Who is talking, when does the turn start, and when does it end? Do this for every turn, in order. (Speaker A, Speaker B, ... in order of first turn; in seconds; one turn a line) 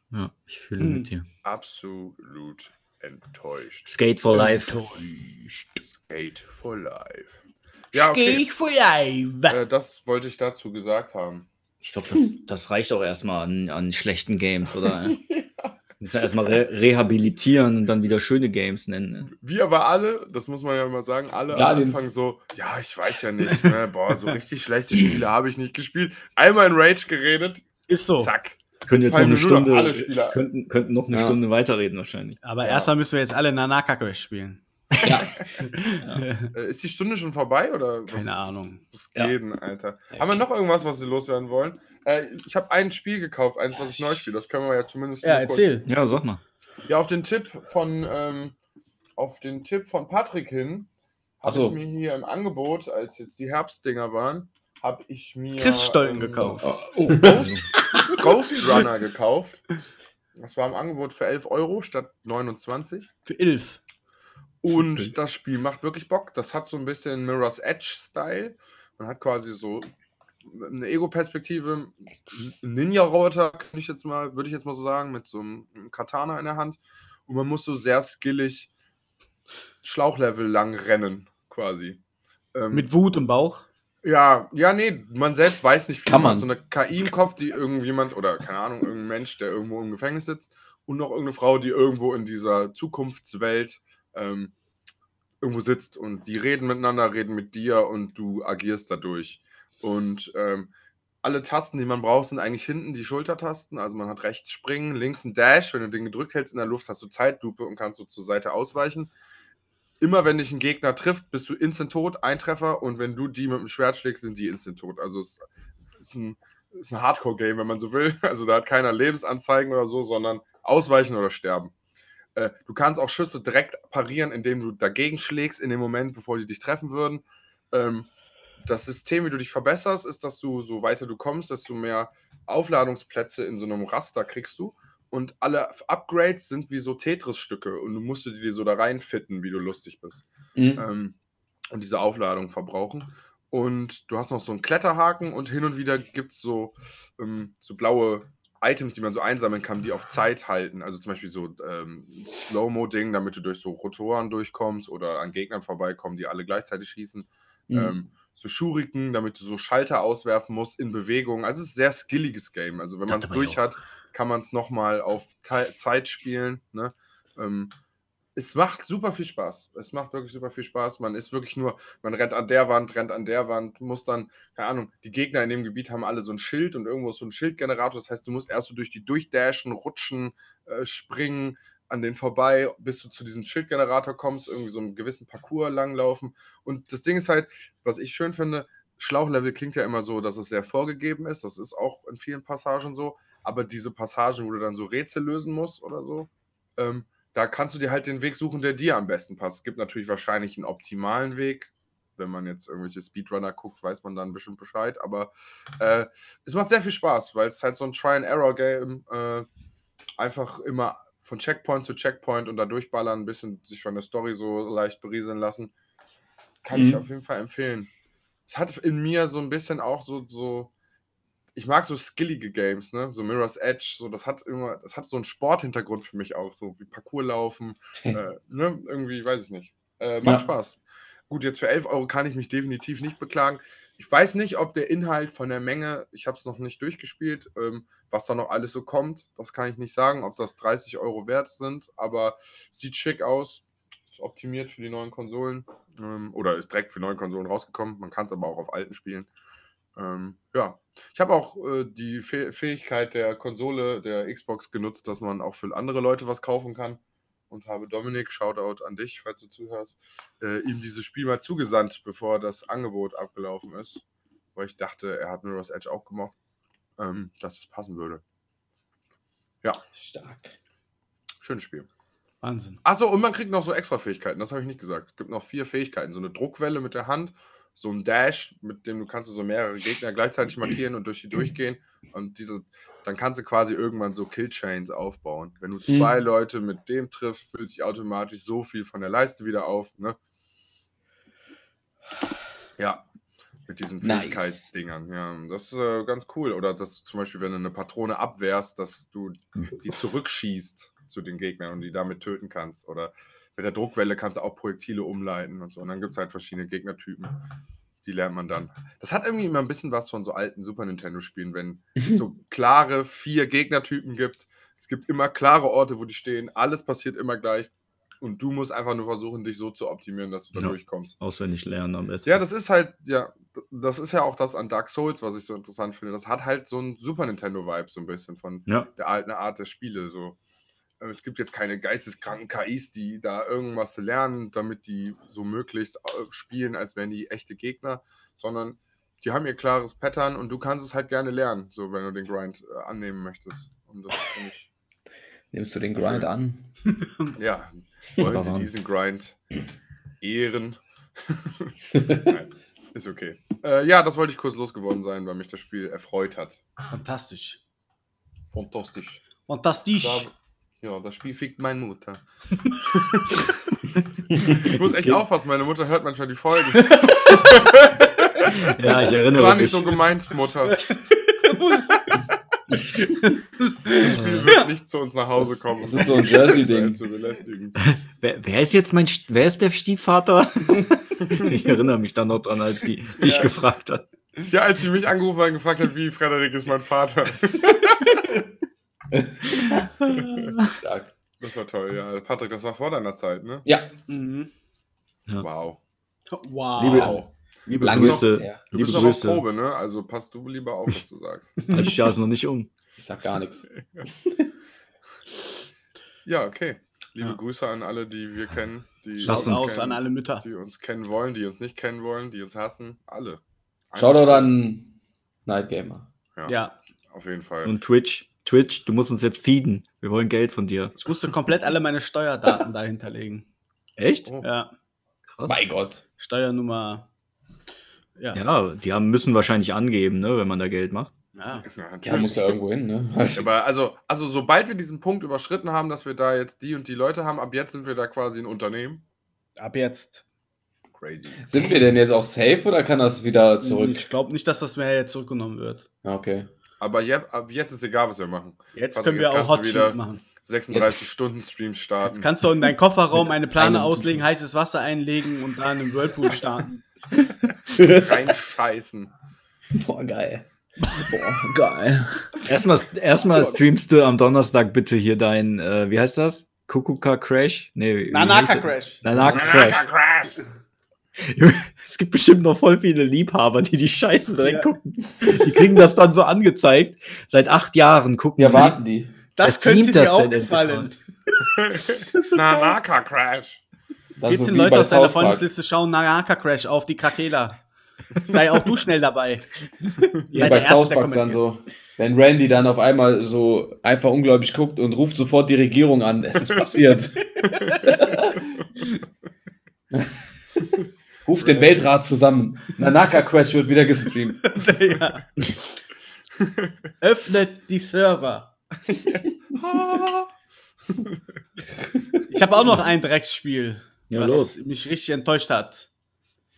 Speaker A: 0.1-1.3
Speaker B: 0.8-1.1
Speaker C: 1.4-3.9
Speaker A: 3.9-4.8
Speaker B: 4.4-5.4
Speaker C: 5.8-7.4
Speaker C: 7.9-8.4
Speaker B: 7.9-9.6
Speaker C: 9.5-11.5
Speaker A: 11.8-15.2
Speaker C: 15.0-15.7
Speaker A: 16.0-19.3
Speaker C: 19.3-30.4
Speaker D: 21.5-22.1
Speaker B: 27.9-28.3
Speaker A: 28.9-32.8
Speaker D: 31.1-31.4
Speaker B: 32.4-34.6
Speaker D: 35.0-35.3
Speaker B: 35.6-36.5
Speaker C: 36.5-45.7
Speaker B: 38.1-38.8
Speaker D: 40.1-40.5
Speaker B: 45.2-45.9
Speaker A: 45.9-46.4
Speaker C: 46.9-48.6
Speaker C: 49.2-50.9
Speaker C: 51.4-56.6
Speaker D: 51.5-51.8
Speaker B: 55.6-56.8
Speaker D: 56.6-58.8
Speaker C: 57.1-59.6
Speaker A: 57.2-57.6
Speaker C: 60.4-63.1
Speaker B: 63.2-63.8
Speaker C: 64.6-69.9
Speaker C: 70.5-78.7
Speaker C: 79.8-82.0
Speaker C: 82.5-82.9
Speaker B: 82.7-83.7
Speaker C: 84.0-94.5
Speaker D: 86.1-86.5
Speaker C: 95.4-100.7
Speaker C: 101.2-109.1
Speaker C: 110.0-115.5
Speaker C: 116.0-121.7
Speaker C: 122.4-128.1
Speaker C: 128.6-141.2
Speaker D: 140.6-140.8
Speaker C: 141.7-167.7
Speaker D: 157.7-157.9
Speaker A: 163.1-163.7
Speaker C: 168.4-209.5
Speaker C: 210.2-215.7
Speaker C: 216.6-217.9
Speaker D: 216.7-217.0
Speaker C: 218.5-220.7
Speaker C: 221.6-249.3
Speaker C: 250.0-264.0
Speaker C: 264.6-266.4
Speaker C: 267.0-268.2
Speaker D: 270.0-270.5
Speaker C: 271.4-271.9
Speaker B: 272.4-272.8
Speaker C: 272.8-290.2
Speaker D: 285.9-286.1
Speaker C: 292.8-293.1
Speaker C: 293.7-307.4
Speaker D: 294.0-294.7
Speaker C: 308.0-321.2
Speaker A: 320.6-322.4
Speaker C: 322.2-330.4
Speaker C: 331.0-344.7
Speaker D: 345.5-346.6
Speaker C: 346.0-346.3
Speaker B: 347.0-347.3
Speaker C: 347.4-349.4
Speaker A: 348.2-348.7
Speaker C: 350.2-356.6
Speaker D: 351.9-352.3
Speaker B: 356.9-357.6
Speaker C: 358.5-359.2
Speaker B: 359.5-360.3
Speaker C: 360.0-363.4
Speaker C: 364.5-370.9
Speaker A: 364.6-365.2
Speaker A: 368.5-370.0
Speaker B: 370.7-372.0
Speaker B: 373.2-374.0
Speaker C: 374.0-377.8
Speaker A: 374.0-374.5
Speaker D: 375.5-377.0
Speaker A: 377.8-384.1
Speaker B: 383.2-383.5
Speaker C: 384.5-388.4
Speaker D: 389.1-389.5
Speaker A: 390.1-390.7
Speaker D: 390.6-391.1
Speaker C: 391.4-393.6
Speaker D: 393.6-393.9
Speaker B: 394.1-394.5
Speaker C: 395.4-395.8
Speaker B: 396.3-397.2
Speaker A: 396.8-399.4
Speaker D: 396.9-399.0
Speaker C: 397.9-401.6
Speaker A: 401.7-402.7
Speaker D: 403.0-403.7
Speaker D: 404.2-404.5
Speaker C: 406.2-414.5
Speaker A: 409.2-409.8
Speaker B: 409.2-410.4
Speaker D: 414.0-414.9
Speaker D: 415.5-416.1
Speaker B: 416.5-416.8
Speaker C: 417.1-417.8
Speaker A: 417.6-421.0
Speaker B: 421.0-423.5
Speaker A: 424.0-424.3
Speaker B: 424.4-424.7
Speaker A: 425.3-425.6
Speaker D: 425.5-426.0
Speaker B: 426.2-427.1
Speaker A: 428.3-431.1
Speaker B: 431.4-431.6
Speaker C: 431.7-432.6
Speaker D: 432.0-433.5
Speaker C: 433.4-439.0
Speaker B: 439.6-440.2
Speaker C: 440.9-441.5
Speaker D: 441.4-444.0
Speaker B: 443.6-445.9
Speaker D: 446.0-446.5
Speaker C: 446.8-452.3
Speaker B: 448.7-450.2
Speaker D: 450.7-451.0
Speaker B: 452.1-456.9
Speaker D: 453.1-454.3
Speaker D: 457.7-458.2
Speaker C: 457.8-459.1
Speaker D: 459.8-462.3
Speaker A: 462.4-469.8
Speaker B: 463.2-463.6
Speaker B: 468.1-469.0
Speaker D: 469.1-469.8
Speaker C: 469.3-470.4
Speaker A: 471.2-478.8
Speaker B: 474.4-474.7
Speaker D: 475.2-475.5
Speaker D: 478.4-479.1
Speaker B: 479.4-480.9
Speaker A: 479.4-480.9
Speaker C: 481.6-483.6
Speaker D: 484.2-485.5
Speaker B: 484.2-487.6
Speaker B: 488.1-489.5
Speaker D: 490.3-498.6
Speaker A: 490.3-490.7
Speaker B: 490.3-491.4
Speaker D: 501.3-504.6
Speaker C: 501.4-501.8
Speaker B: 504.4-505.3
Speaker C: 506.5-506.7
Speaker B: 507.0-508.5
Speaker C: 509.5-510.3
Speaker D: 511.9-512.2
Speaker B: 512.3-515.9
Speaker C: 512.4-512.8
Speaker A: 514.1-514.6